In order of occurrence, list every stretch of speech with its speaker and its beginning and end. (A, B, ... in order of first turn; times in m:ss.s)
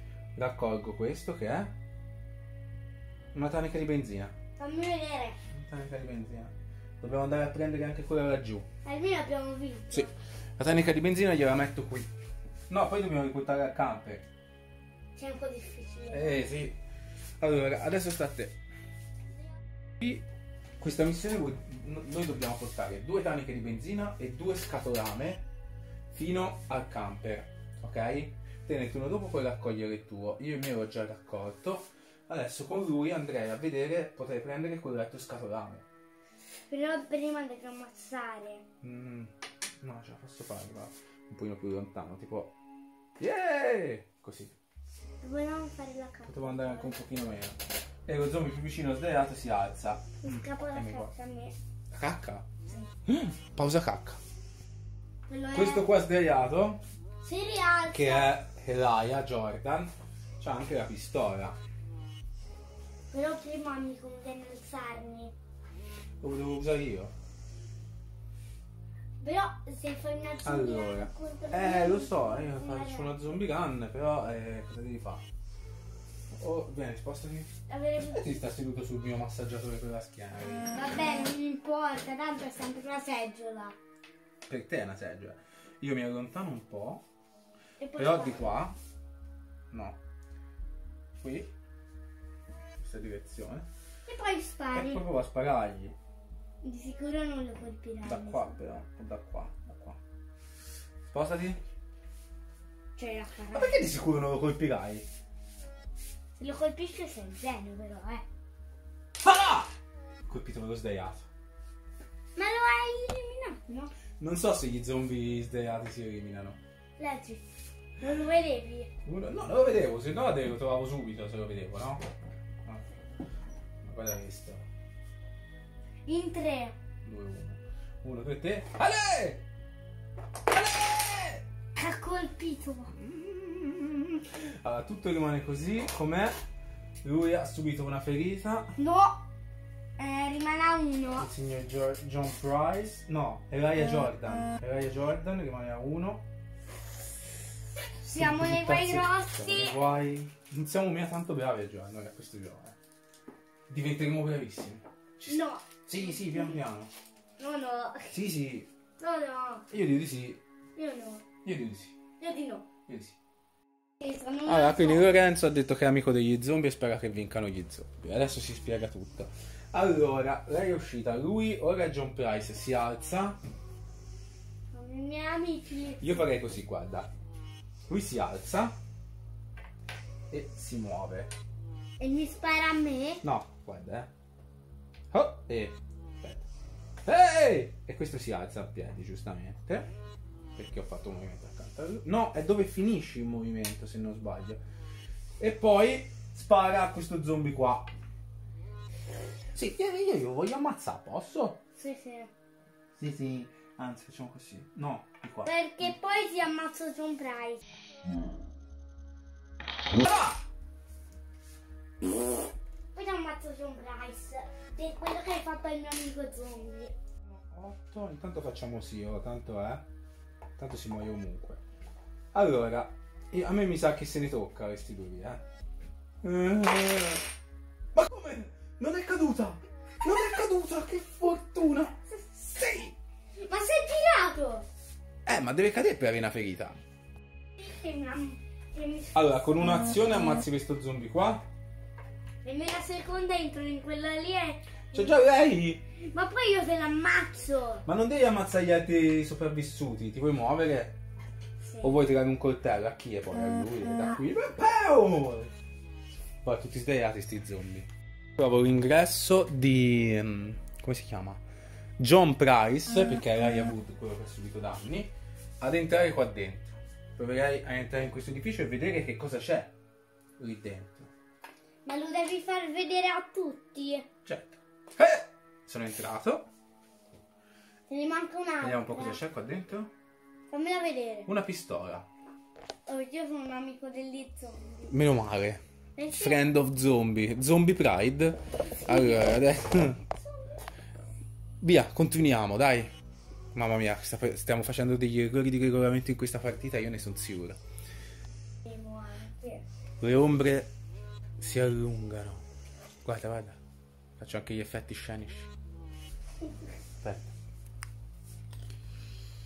0:00.4-0:01.7 A
0:03.3-0:04.3 A
0:04.6-0:05.4 B
0:05.5-0:08.6 A
0:08.8-0:10.1 B
0:09.9-0:12.1 A
0:12.7-0:14.2 A
0:15.2-0:16.4 B
0:16.1-0:16.8 A
0:17.4-0:18.6 A
0:20.8-0:25.4 A
0:26.1-0:35.8 A
0:36.6-0:38.6 B
0:38.8-0:42.5 A
0:43.2-0:44.6 A
0:45.2-0:47.0 B
0:46.2-0:51.1 A
0:50.2-0:51.5 B
0:51.9-0:52.5 A
0:53.1-0:54.2 A
0:55.3-0:55.9 B
0:55.5-0:56.8 A
0:57.2-0:58.3 B
0:57.9-1:01.6 A
1:03.1-1:05.3 B
1:06.2-1:07.1 A
1:09.2-1:13.2 B
1:10.4-1:15.2 A
1:16.3-1:20.7 A
1:17.7-1:18.4 B
1:20.7-1:23.8 B
1:24.5-1:27.0 A
1:27.8-1:28.6 B
1:27.9-1:28.7 A
1:29.7-1:30.0 A
1:31.2-1:31.5 A
1:32.8-1:33.7 A
1:34.1-1:35.0 B
1:34.7-1:36.0 A
1:36.6-1:38.6 B
1:38.0-1:40.0 A
1:41.1-1:41.6 A
1:43.0-1:43.8 B
1:43.5-1:45.1 A
1:46.4-1:48.2 B
1:49.2-1:49.7 A
1:50.2-1:51.3 A
1:52.4-1:53.9 B
1:54.2-1:56.6 A
1:57.0-1:57.4 B
1:58.0-1:58.9 B
1:59.0-2:02.0 A
2:02.6-2:02.9 A
2:03.8-2:04.6 A
2:06.0-2:06.8 B
2:07.0-2:09.4 A
2:10.5-2:11.4 A
2:11.7-2:12.9 B
2:12.9-2:16.3 A
2:17.0-2:18.8 A
2:18.8-2:19.2 B
2:20.0-2:21.3 B
2:21.2-2:26.2 A
2:28.0-2:29.8 B
2:28.1-2:32.8 A
2:33.7-2:36.9 A
2:35.3-2:36.6 B
2:37.4-2:38.2 B
2:38.1-2:38.7 A
2:39.0-2:39.6 B
2:39.7-2:40.4 A
2:40.8-2:41.3 B
2:41.4-2:42.0 A
2:42.2-2:42.7 B
2:42.9-2:43.2 A
2:44.0-2:45.3 B
2:44.4-2:53.4 A
2:54.7-2:56.0 B
2:56.0-2:57.1 A
2:57.9-2:58.7 A
3:00.3-3:01.3 A
3:02.0-3:03.2 B
3:03.2-3:04.1 A
3:05.1-3:06.4 A
3:07.0-3:09.9 A
3:10.6-3:14.6 A
3:15.4-3:17.9 A
3:19.5-3:21.6 A
3:21.8-3:22.3 B
3:23.0-3:25.9 A
3:25.4-3:27.6 B
3:29.9-3:30.4 A
3:32.9-3:36.9 B
3:37.2-3:39.8 A
3:40.6-3:41.6 A
3:42.3-3:45.4 A
3:46.2-3:47.2 A
3:47.9-3:52.9 A
3:53.4-3:54.6 B
3:55.2-3:56.8 A
3:57.6-3:59.7 B
3:59.1-4:01.4 A
4:02.4-4:05.1 B
4:04.9-4:05.8 A
4:06.0-4:07.8 B
4:07.8-4:11.0 A
4:11.6-4:12.0 B
4:11.8-4:15.5 A
4:16.4-4:21.4 A
4:22.0-4:29.7 A
4:30.4-4:31.1 A
4:31.8-4:34.1 B
4:34.2-4:36.5 A
4:37.9-4:39.2 B
4:38.6-4:39.9 A
4:40.5-4:41.3 B
4:41.2-4:42.1 A
4:42.8-4:45.0 B
4:44.9-4:45.6 A
4:46.0-4:46.6 B
4:46.1-4:50.0 A
4:48.8-4:50.1 B
4:51.6-4:52.9 A
4:53.5-4:57.6 A
4:58.6-4:59.6 B
5:00.0-5:00.7 A
5:01.4-5:02.4 A
5:03.0-5:03.6 A
5:04.2-5:05.5 A
5:07.0-5:07.3 A